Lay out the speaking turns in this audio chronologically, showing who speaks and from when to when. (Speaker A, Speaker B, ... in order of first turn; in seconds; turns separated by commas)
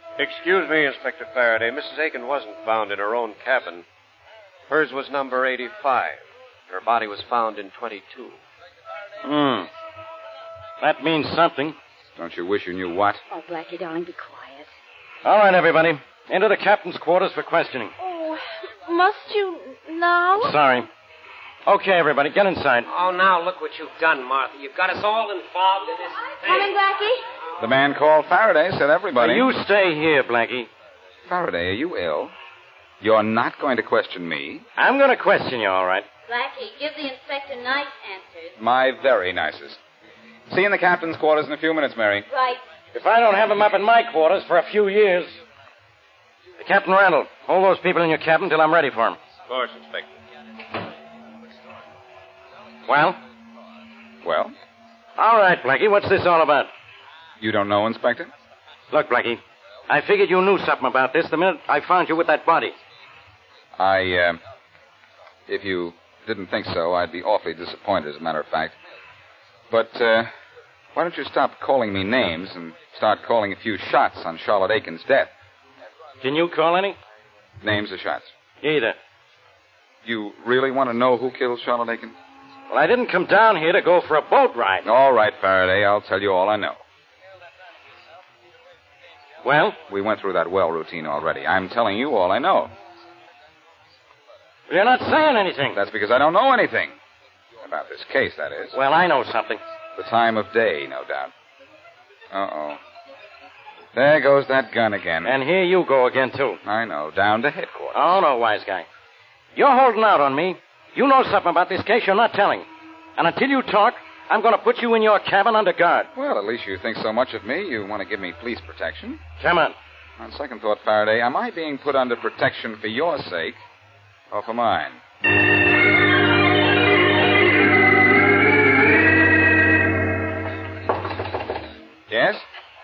Speaker A: 0.2-3.9, Speaker A: 4.7-8.4, Speaker B: 9.2-9.7, Speaker B: 10.8-11.8, Speaker C: 12.2-13.2, Speaker D: 13.3-14.7, Speaker B: 15.2-17.9, Speaker E: 18.0-20.6, Speaker B: 20.4-20.9, Speaker B: 21.7-22.9, Speaker F: 22.9-26.8, Speaker D: 26.4-27.2, Speaker C: 27.6-29.5, Speaker B: 29.2-30.7, Speaker C: 31.3-32.3, Speaker C: 33.0-34.6, Speaker B: 34.8-36.1, Speaker D: 36.3-38.5, Speaker C: 38.6-39.8, Speaker C: 40.5-42.3, Speaker D: 42.3-42.6, Speaker B: 42.9-45.4, Speaker B: 46.6-49.2, Speaker A: 49.5-50.1, Speaker B: 52.9-53.2, Speaker C: 54.2-54.5, Speaker B: 55.2-56.7, Speaker C: 57.4-58.3, Speaker B: 58.9-62.8, Speaker C: 63.8-64.4, Speaker C: 65.5-68.8, Speaker C: 69.7-70.3, Speaker C: 71.0-75.3, Speaker B: 76.2-77.0, Speaker C: 77.6-78.3, Speaker B: 78.6-79.0, Speaker C: 80.0-82.2, Speaker B: 82.7-84.9, Speaker C: 84.8-86.8, Speaker B: 89.4-89.8, Speaker C: 89.9-92.7, Speaker B: 94.7-95.8, Speaker C: 95.7-97.0, Speaker C: 97.6-98.8, Speaker B: 98.7-99.6, Speaker C: 100.0-101.3, Speaker C: 102.3-102.8, Speaker C: 103.9-105.4, Speaker B: 105.3-106.6, Speaker C: 106.7-108.0, Speaker B: 107.9-108.9, Speaker B: 109.5-112.7, Speaker B: 113.2-116.1, Speaker C: 116.2-119.2, Speaker B: 119.4-119.8, Speaker C: 120.2-123.6, Speaker C: 124.3-125.0, Speaker C: 132.1-132.5